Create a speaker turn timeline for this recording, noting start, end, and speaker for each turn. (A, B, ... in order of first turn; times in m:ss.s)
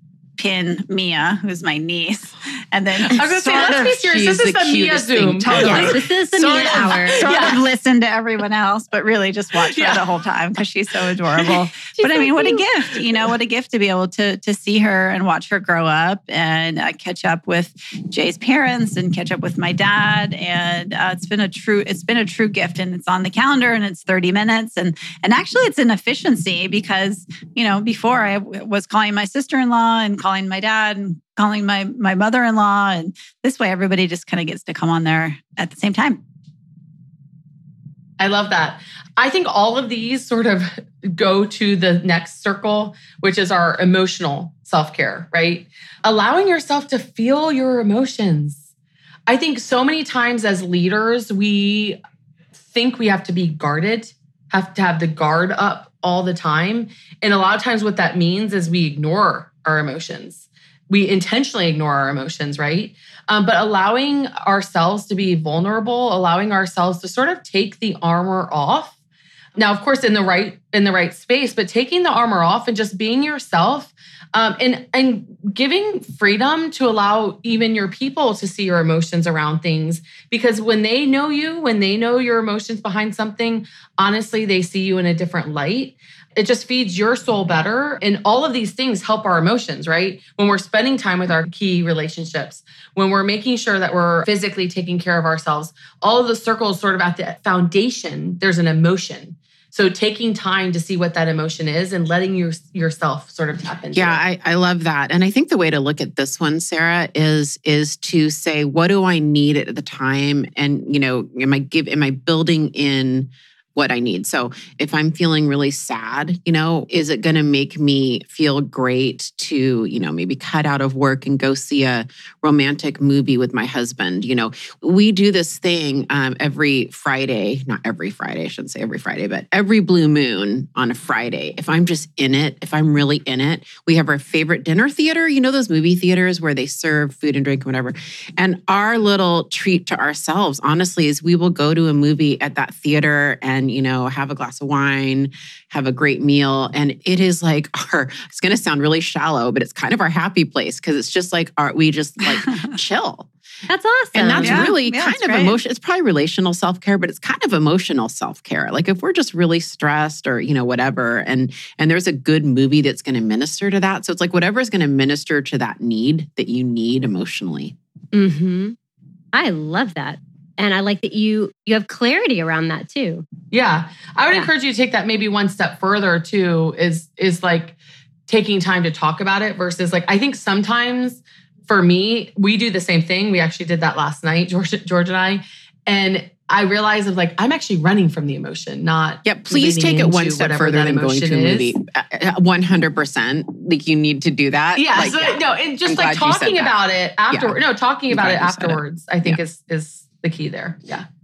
0:00.4-0:04.1 A
0:03.1-0:07.6 B
0:03.5-0:06.0 C
0:05.4-0:36.2 A
0:05.6-0:07.3 D
0:09.6-0:10.1 B
0:11.3-0:11.7 B
0:12.0-0:12.6 D
0:13.0-0:13.3 B
0:38.2-0:48.6 B
0:49.3-0:52.0 B
0:52.7-1:09.0 B
1:09.6-1:44.2 B
1:43.9-2:33.3 C
2:33.7-2:34.7 D
2:34.1-2:47.8 C
2:34.4-2:35.6 A
2:48.1-2:48.8 D
2:49.3-2:53.2 D
2:53.5-2:57.8 B
2:58.3-3:11.8 B
3:09.2-3:16.8 C
3:14.8-3:21.1 B
3:17.3-3:17.6 C
3:18.1-3:19.4 C